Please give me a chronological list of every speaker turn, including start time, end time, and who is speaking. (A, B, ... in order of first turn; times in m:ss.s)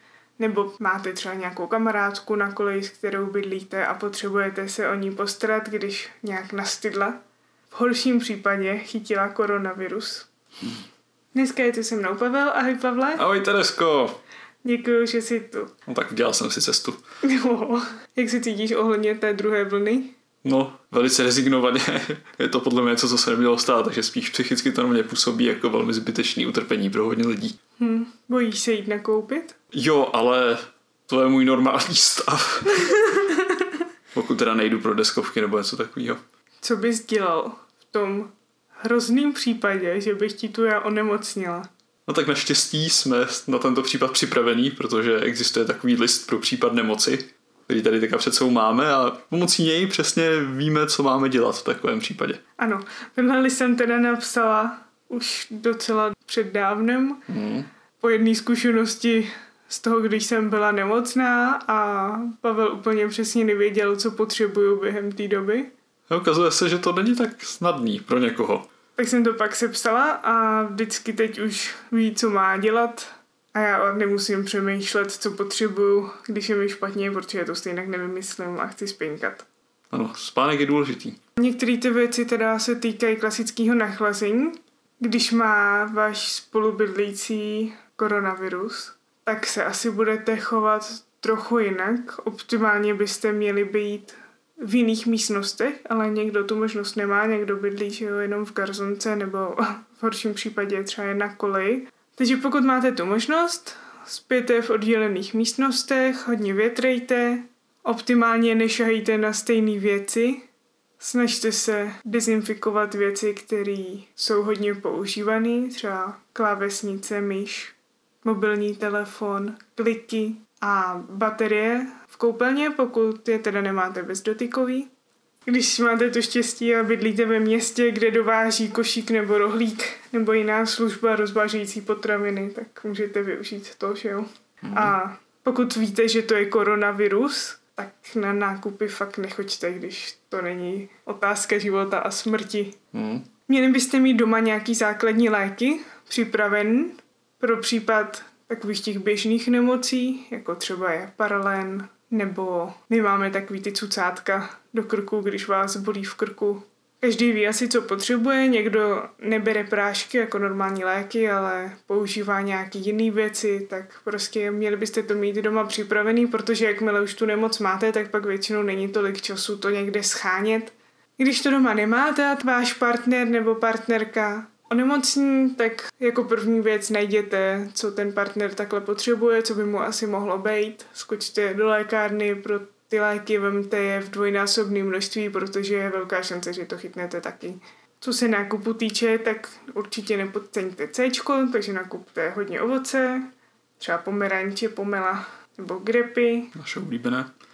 0:00.4-0:07.2 A
0:07.7-0:10.3 A
0:11.3-0:13.3 A
0:13.2-0:14.2 B
0:14.6-0:15.7 A
0:15.9-0:17.0 B
0:17.2-0:20.2 A
0:20.4-0:27.6 B
0:27.8-0:29.6 A
0:29.7-0:32.9 B
0:32.7-0:33.8 A
0:34.1-0:36.2 B
0:36.6-0:41.7 A
0:42.1-0:52.4 B
0:52.6-0:57.2 A
0:57.3-0:57.7 B
0:58.0-1:05.7 A
1:06.1-1:08.7 B
1:09.0-1:19.5 A
1:19.9-1:21.2 B
1:21.4-1:50.5 A
1:51.0-2:04.9 A
2:05.5-2:22.8 A
2:14.7-2:14.9 B
2:22.9-2:23.3 B
2:23.5-3:16.5 A
3:16.6-3:17.3 B